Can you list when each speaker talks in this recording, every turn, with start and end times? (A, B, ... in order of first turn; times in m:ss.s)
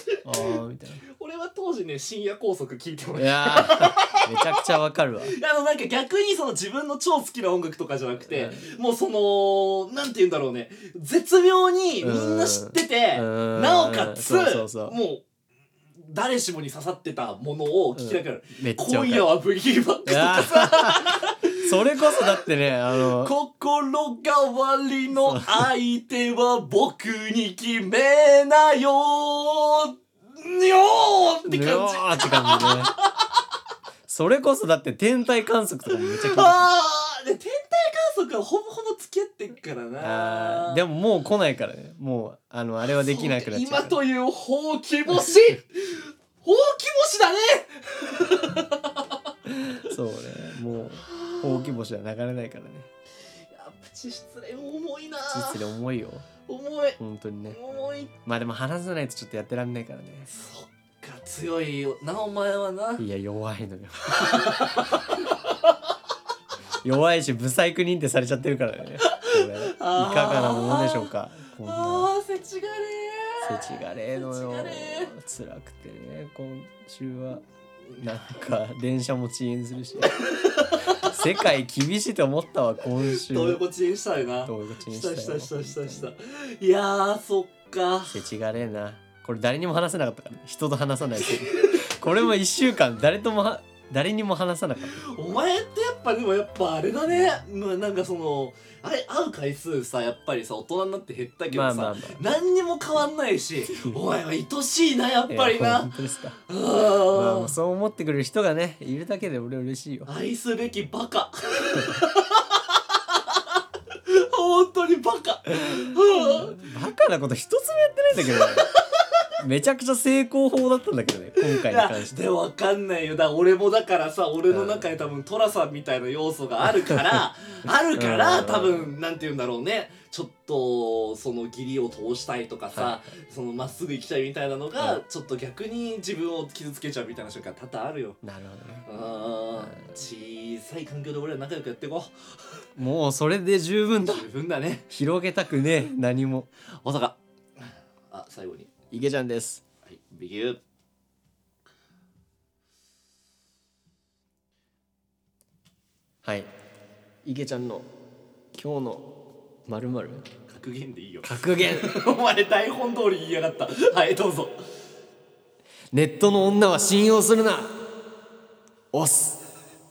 0:00.2-0:01.0 A
0:00.3-0:04.7 B
0:03.2-0:05.4 A
0:05.2-0:15.2 B
0:08.3-0:08.7 A
0:12.0-0:15.0 A
0:16.0-0:22.4 B
0:18.0-0:19.3 A
0:20.1-0:23.3 A
0:22.9-0:33.1 B
0:25.2-0:25.7 A
0:31.5-0:32.9 A
0:34.1-0:36.7 A
0:36.0-0:40.8 B
0:40.0-0:44.0 A
0:42.8-0:49.2 B
0:49.5-0:52.9 A
0:50.8-0:51.8 B
0:53.5-0:55.7 B
0:55.3-0:56.3 A
0:56.4-0:58.1 B
0:57.0-0:57.6 A
0:58.2-1:00.3 A
1:00.3-1:03.0 B
1:03.0-1:05.0 A
1:04.1-1:05.7 B
1:06.8-1:12.1 A
1:09.0-1:11.1 B
1:11.6-1:15.1 B
1:13.4-1:17.4 A
1:17.9-1:18.4 B
1:18.0-1:23.6 A
1:20.3-1:21.2 B
1:23.0-1:28.2 B
1:24.4-1:26.1 A
1:28.1-1:35.0 A
1:31.2-1:31.9 B
1:35.0-1:47.6 B
1:41.5-1:42.3 A
1:43.6-1:44.0 A
1:45.3-1:46.4 A
1:47.0-1:50.1 A
1:50.0-1:56.6 B
1:55.6-1:58.7 A
1:58.2-1:58.8 B
1:59.4-2:02.2 A
2:01.4-2:18.2 B
2:04.5-2:04.9 A
2:08.0-2:08.9 A
2:12.7-2:13.1 A
2:18.2-2:20.0 A
2:18.8-2:22.6 B
2:22.8-2:24.3 A
2:24.0-2:24.9 B
2:24.9-2:26.5 A
2:26.6-2:28.7 B
2:28.9-2:29.6 A
2:29.8-2:30.6 B
2:36.2-2:36.5 A
2:37.2-2:37.9 A
2:38.5-2:39.1 A
2:39.7-2:40.2 A
2:40.5-2:44.6 B
2:41.2-2:41.9 A
2:45.9-2:47.8 A
2:48.9-2:49.4 A